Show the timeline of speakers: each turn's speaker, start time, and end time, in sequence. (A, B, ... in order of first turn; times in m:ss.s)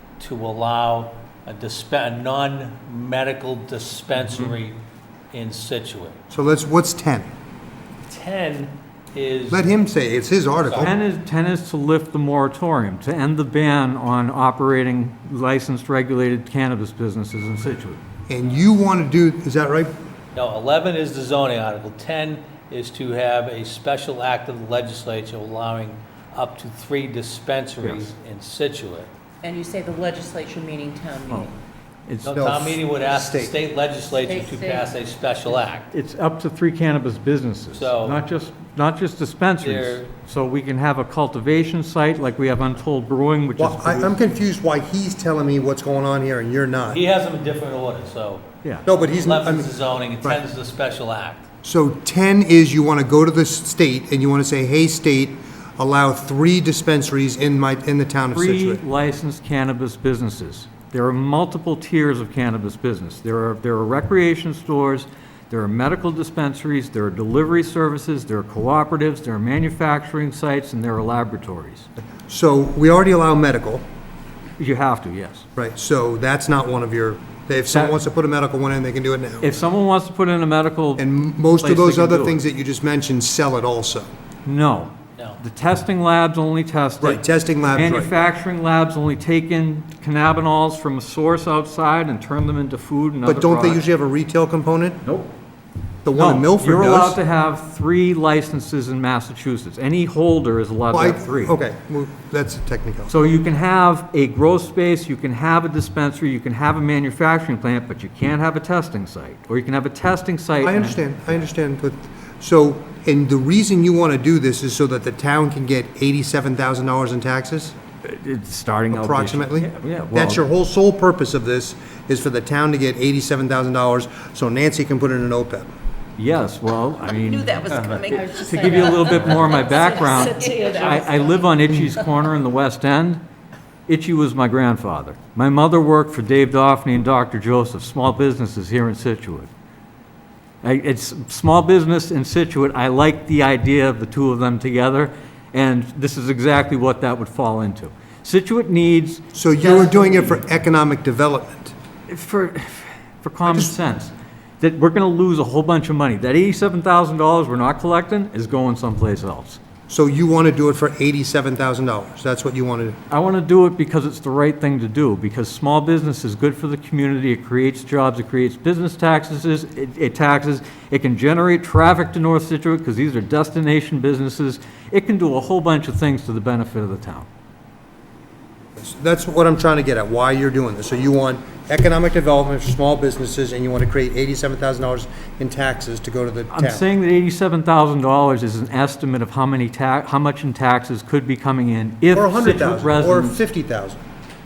0:00.2-0:04.8 A
0:04.2-0:04.5 B
0:05.3-0:06.2 A
0:06.3-0:07.3 C
0:08.1-0:09.7 A
0:09.5-0:11.0 C
0:10.6-0:10.9 A
0:10.8-0:18.0 B
0:18.3-0:19.9 C
0:20.4-0:29.1 A
0:27.8-0:28.1 B
0:29.4-0:31.5 D
0:32.1-0:32.5 B
0:32.2-0:35.9 A
0:32.4-0:33.6 C
0:34.2-0:34.9 D
0:35.9-0:44.2 B
0:37.7-0:38.2 A
0:39.6-0:40.1 A
0:43.6-0:47.0 C
0:46.9-0:51.4 A
0:48.9-0:49.7 C
0:51.6-0:58.8 C
0:58.3-1:11.9 B
1:12.3-1:13.8 C
1:14.6-1:15.5 B
1:15.6-1:19.5 C
1:17.7-1:18.0 B
1:19.4-1:21.1 B
1:21.0-1:24.1 C
1:21.6-1:22.4 B
1:24.5-1:33.8 B
1:27.0-1:28.1 C
1:33.2-1:35.0 C
1:35.0-1:35.3 B
1:36.0-1:37.2 C
1:36.1-1:41.6 B
1:40.9-1:43.1 C
1:43.1-1:51.5 B
1:50.6-1:57.8 C
1:58.0-2:00.4 B
1:58.9-2:05.7 C
2:06.2-2:13.2 B
2:07.1-2:11.4 D
2:13.9-2:19.5 B
2:20.6-2:30.1 B
2:29.3-2:31.8 C
2:32.1-2:39.6 B
2:33.4-2:33.7 C
2:39.9-2:43.0 C
2:43.1-2:57.3 B
2:58.8-3:06.8 C
3:06.5-3:13.4 B
3:12.1-3:14.0 C